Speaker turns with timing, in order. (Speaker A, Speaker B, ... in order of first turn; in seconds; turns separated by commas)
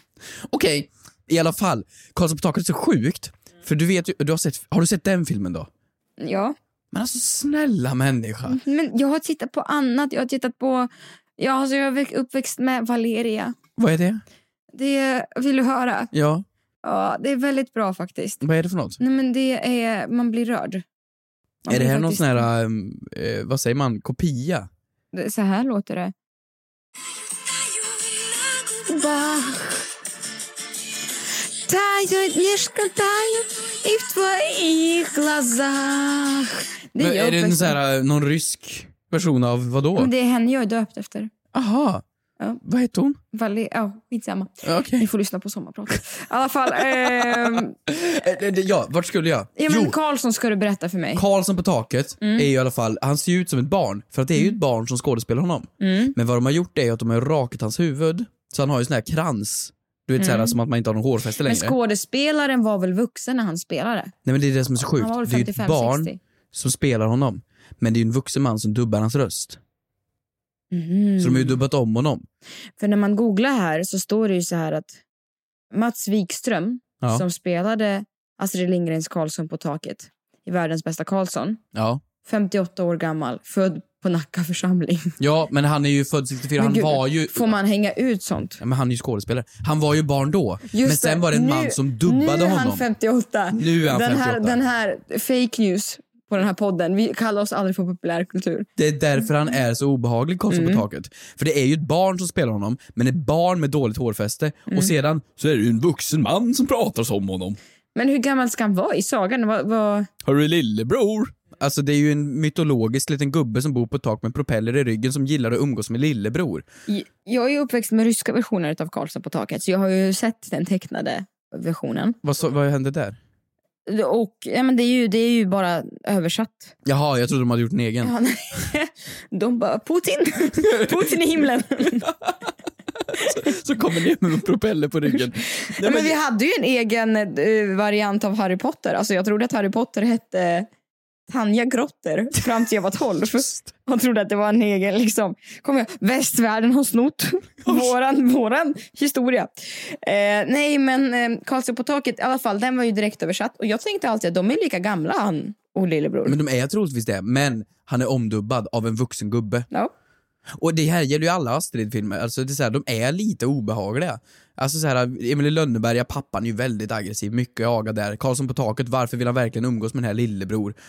Speaker A: 0.5-5.7, Speaker B: 6.2-6.5, Speaker A: 6.9-8.6, Speaker B: 8.5-13.5, Speaker A: 13.8-14.2, Speaker B: 14.7-16.1, Speaker A: 16.1-16.4, Speaker B: 16.8-18.4, Speaker A: 18.4-19.0, Speaker B: 19.0-20.8, Speaker B: 21.6-22.5, Speaker A: 21.7-24.7, Speaker B: 25.1-26.1, Speaker B: 28.5-29.9, Speaker B: 31.6-37.8, Speaker A: 37.0-40.1, Speaker B: 40.0-41.3, Speaker A: 41.5-42.0, Speaker A: 42.6-43.2, Speaker B: 43.3-47.7, Speaker A: 44.6-45.1, Speaker A: 46.7-50.0, Speaker B: 49.6-51.2, Speaker A: 51.1-61.8, Speaker B: 52.2-52.5, Speaker B: 55.8-56.1, Speaker B: 60.2-60.6, Speaker B: 61.4-64.1, Speaker A: 64.2-69.6, Speaker B: 64.8-66.2, Speaker B: 70.7-71.6, Speaker A: 71.2-72.2, Speaker B: 72.8-75.0, Speaker B: 75.7-81.6, Speaker A: 81.7-82.0, Speaker B: 82.2-85.2, Speaker A: 85.2-87.5, Speaker B: 86.6-88.6, Speaker A: 88.6-92.8, Speaker B: 90.7-98.7, Speaker A: 93.5-94.6, Speaker A: 98.8-107.6, Speaker B: 100.5-100.8, Speaker B: 104.7-104.9, Speaker B: 107.9-110.1, Speaker A: 110.2-116.6, Speaker B: 116.9-122.2, Speaker A: 122.2-123.2, Speaker B: 123.9-126.7, Speaker A: 126.8-128.1, Speaker B: 128.0-132.1, Speaker A: 130.6-131.2, Speaker A: 131.8-132.3, Speaker A: 133.1-136.2, Speaker B: 133.2-133.5, Speaker B: 135.6-140.7, Speaker B: 141.3-156.4, Speaker A: 147.6-147.9, Speaker A: 156.2-159.7, Speaker A: 160.5-170.8